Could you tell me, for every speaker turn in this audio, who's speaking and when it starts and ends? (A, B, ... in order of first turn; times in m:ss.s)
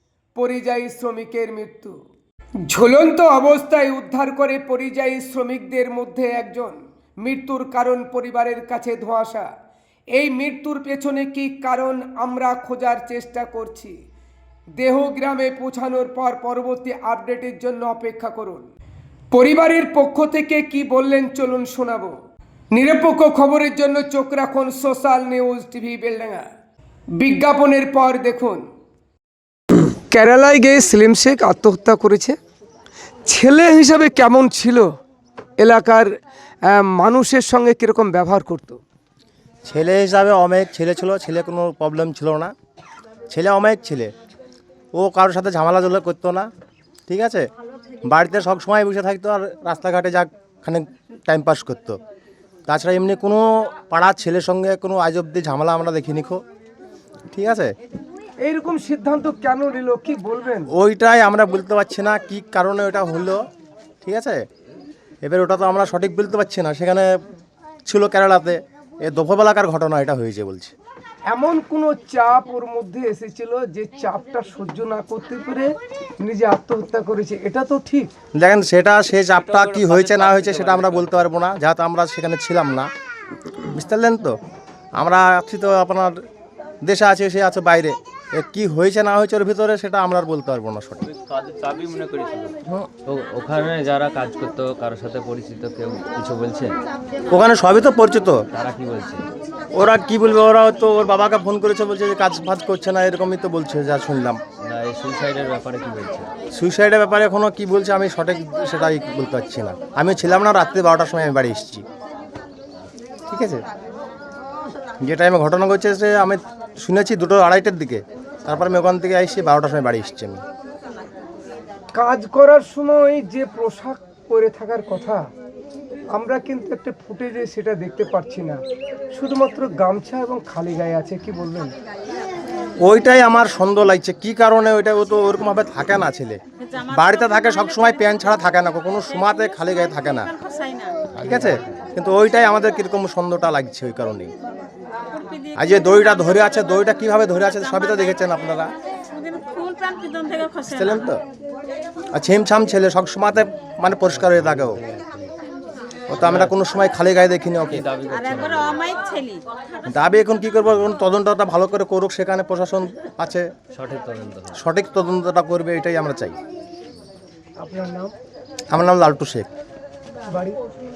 0:00.4-0:02.0 A
0:02.6-0:09.5 A
0:10.1-0:14.0 A
0:14.8-0:18.7 A
0:19.3-0:22.2 A
0:22.7-0:26.5 A
0:27.1-0:28.7 A
0:29.7-0:32.4 A
0:33.3-0:34.9 A
0:35.6-0:38.8 A
0:39.6-0:42.5 B
0:43.3-0:44.1 B
0:45.0-0:46.5 B
0:47.1-0:47.5 B
0:48.0-0:52.0 B
0:52.7-0:56.4 B
0:57.3-0:57.7 B
0:58.4-1:00.7 A
1:00.7-1:03.4 B
1:04.0-1:04.4 B
1:05.2-1:07.2 B
1:07.9-1:10.7 B
1:11.3-1:18.1 A
1:18.4-1:22.9 B
1:19.3-1:21.5 C
1:23.7-1:24.4 B
1:25.0-1:26.2 B
1:26.8-1:31.1 B
1:31.1-1:36.8 C
1:37.3-1:38.4 B
1:38.5-1:39.3 C
1:39.8-1:44.4 B
1:44.6-1:46.3 C
1:46.6-1:51.8 B
1:53.3-1:53.6 B
1:55.0-2:00.4 B
2:02.0-2:05.3 A
2:06.1-2:08.6 A
2:09.1-2:11.7 A
2:12.8-2:20.3 B
2:16.7-2:16.9 D
2:20.3-2:21.1 D
2:21.2-2:24.3 B
2:21.2-2:21.7 C
2:25.1-2:25.6 D
2:25.6-2:28.7 B
2:29.0-2:31.0 D
2:30.7-2:31.2 B
2:32.1-2:34.8 B
2:34.3-2:35.3 C
2:36.1-2:37.8 B
2:36.1-2:36.5 C
2:37.7-2:38.8 C
2:38.3-2:39.4 D
2:39.9-2:43.5 B
2:43.7-2:44.6 C
2:44.5-2:46.4 B
2:47.6-2:48.1 A
2:48.7-2:49.5 B
2:50.3-2:50.6 A